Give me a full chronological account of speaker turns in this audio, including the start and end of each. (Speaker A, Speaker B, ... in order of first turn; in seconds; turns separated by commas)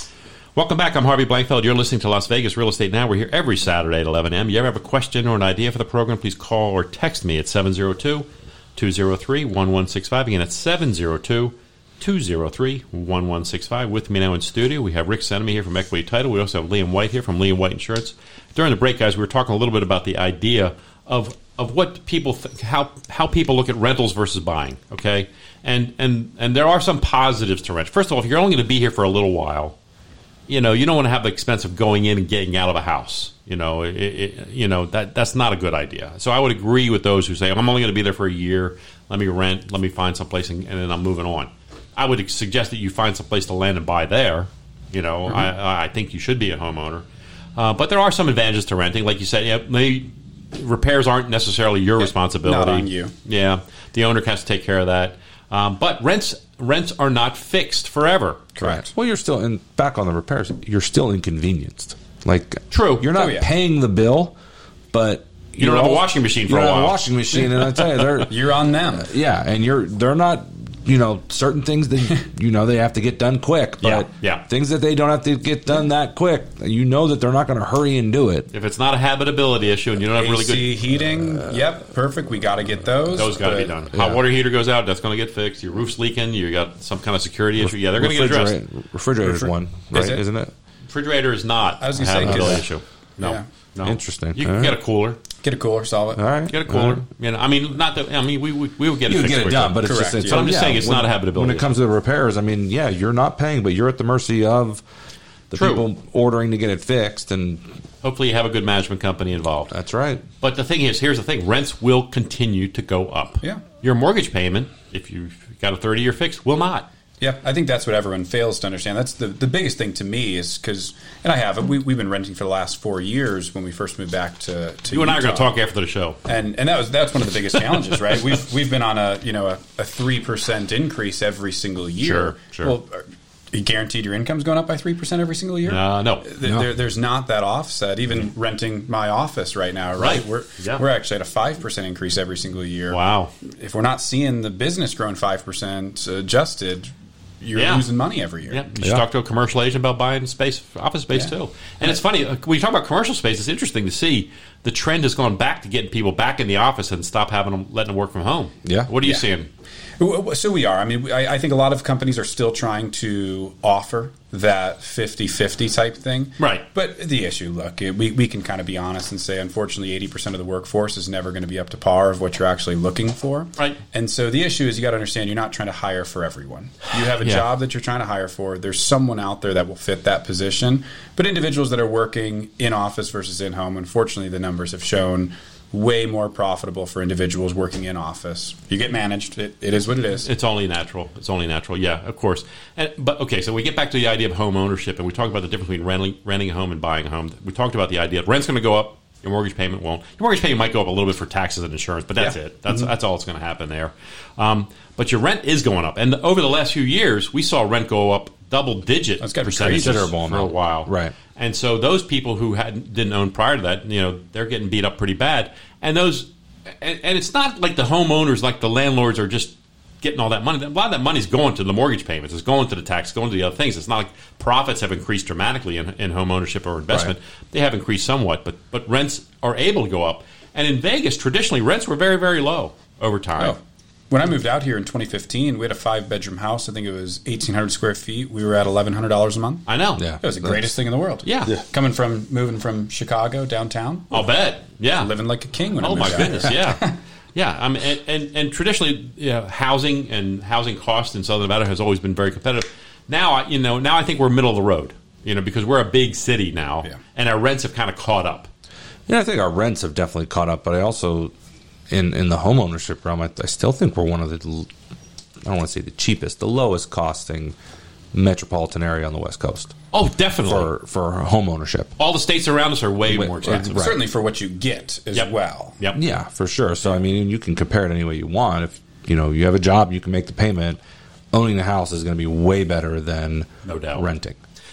Speaker A: 0.6-29.8, Speaker A: 30.5-47.0, Speaker A: 47.6-58.5, Speaker B: 52.0-53.1, Speaker B: 58.6-58.9, Speaker C: 58.6-64.4, Speaker A: 62.7-63.1, Speaker B: 63.1-63.5, Speaker C: 64.9-68.3, Speaker A: 65.6-68.2, Speaker B: 68.2-69.1, Speaker C: 68.9-78.5, Speaker A: 73.8-74.4, Speaker A: 78.5-80.7, Speaker B: 80.2-83.7, Speaker A: 83.2-88.6, Speaker C: 83.9-84.2, Speaker C: 87.6-90.5, Speaker B: 89.3-90.2, Speaker A: 90.9-95.2, Speaker B: 91.8-92.7, Speaker C: 92.2-92.7, Speaker B: 93.2-93.5, Speaker C: 93.8-94.8, Speaker B: 95.4-96.2, Speaker C: 96.2-97.0, Speaker A: 96.5-101.7, Speaker C: 99.1-104.8, Speaker B: 99.8-100.5, Speaker C: 105.5-107.7, Speaker A: 105.5-105.8, Speaker A: 108.0-109.7, Speaker C: 109.7-110.3, Speaker A: 110.4-116.9, Speaker B: 117.2-125.5, Speaker A: 124.9-126.2, Speaker B: 126.2-148.6, Speaker A: 132.0-132.7, Speaker A: 135.7-136.3, Speaker A: 140.0-140.8, Speaker A: 142.9-143.3, Speaker A: 147.6-147.9, Speaker A: 148.5-159.5, Speaker C: 148.8-149.1, Speaker B: 151.1-152.0, Speaker C: 158.7-158.9, Speaker B: 160.0-190.3, Speaker A: 166.4-166.7, Speaker A: 177.2-177.4, Speaker A: 190.2-216.3, Speaker B: 202.2-202.9, Speaker B: 209.2-210.1, Speaker C: 209.7-211.1, Speaker A: 216.8-233.6, Speaker B: 234.1-239.7, Speaker A: 239.7-240.1, Speaker C: 240.0-240.6, Speaker B: 240.2-244.3, Speaker A: 241.3-241.6, Speaker A: 244.1-245.1, Speaker B: 244.9-246.9, Speaker A: 245.8-258.5, Speaker C: 259.1-261.3, Speaker C: 261.9-264.7, Speaker C: 265.4-267.6, Speaker C: 268.1-269.7, Speaker A: 269.9-270.7, Speaker C: 270.5-271.9, Speaker A: 272.0-273.9, Speaker C: 273.1-274.0, Speaker B: 273.7-275.8, Speaker A: 275.1-276.0, Speaker C: 275.9-280.8, Speaker C: 281.3-284.4, Speaker A: 283.6-284.1